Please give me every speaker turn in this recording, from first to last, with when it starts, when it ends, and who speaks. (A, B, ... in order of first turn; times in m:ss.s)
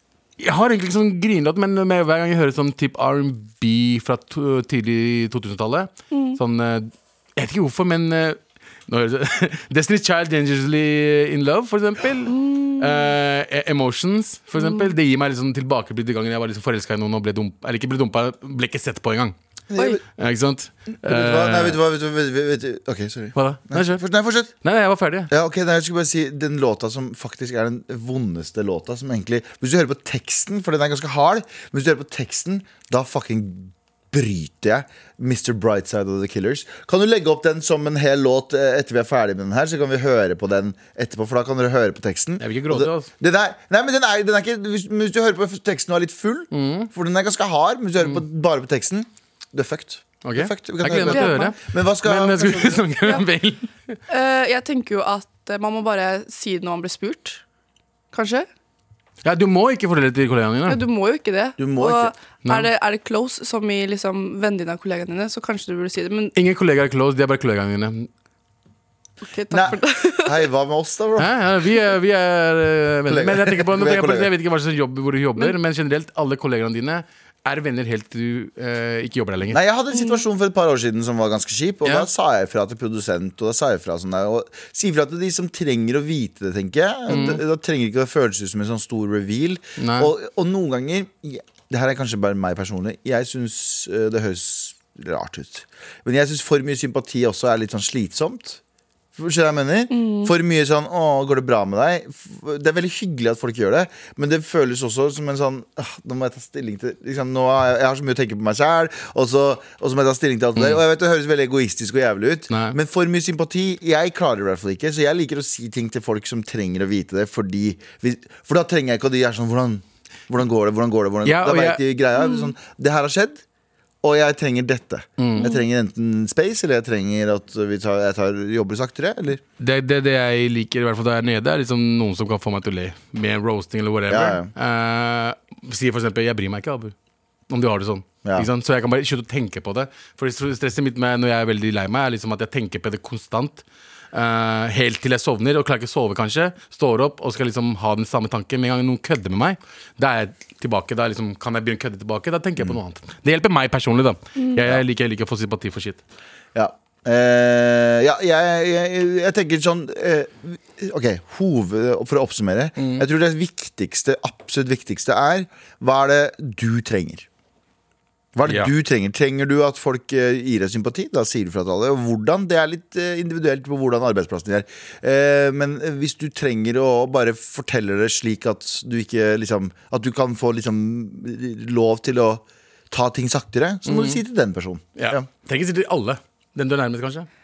0:00.4-0:19.3 A
0:06.1-0:06.4 B
0:12.3-0:13.1 B
0:14.6-0:14.9 B
0:19.7-0:20.0 C
0:20.2-0:21.8 A
0:21.0-0:24.5 C
0:23.4-0:24.0 A
0:24.6-0:25.3 A
0:25.3-0:52.9 C
0:42.4-0:43.1 A
0:46.5-0:46.9 A
0:50.2-0:54.0 A
0:51.0-0:51.5 B
0:54.1-0:57.4 B
0:58.1-0:58.5 B
0:59.2-1:00.8 A
1:00.7-1:06.3 B
1:01.6-1:02.1 C
1:02.4-1:02.7 A
1:06.4-1:08.1 A
1:09.2-1:10.4 B
1:09.5-1:11.4 C
1:11.2-1:19.6 A
1:13.1-1:14.3 C
1:19.5-1:38.6 C
1:27.1-1:27.4 A
1:29.8-1:30.1 A
1:39.2-2:03.4 C
1:39.9-1:40.3 B
1:50.6-1:50.8 A
2:01.2-2:01.8 A
2:02.2-2:02.5 B
2:04.0-2:09.4 C
2:05.2-2:05.5 A
2:09.6-2:16.9 A
2:14.1-2:14.5 C
2:17.5-2:36.0 A
2:36.5-2:47.3 C
2:42.8-2:43.0 A
2:48.3-3:05.2 C
2:48.4-2:48.7 A
3:03.8-3:04.2 A
3:05.0-3:07.3 A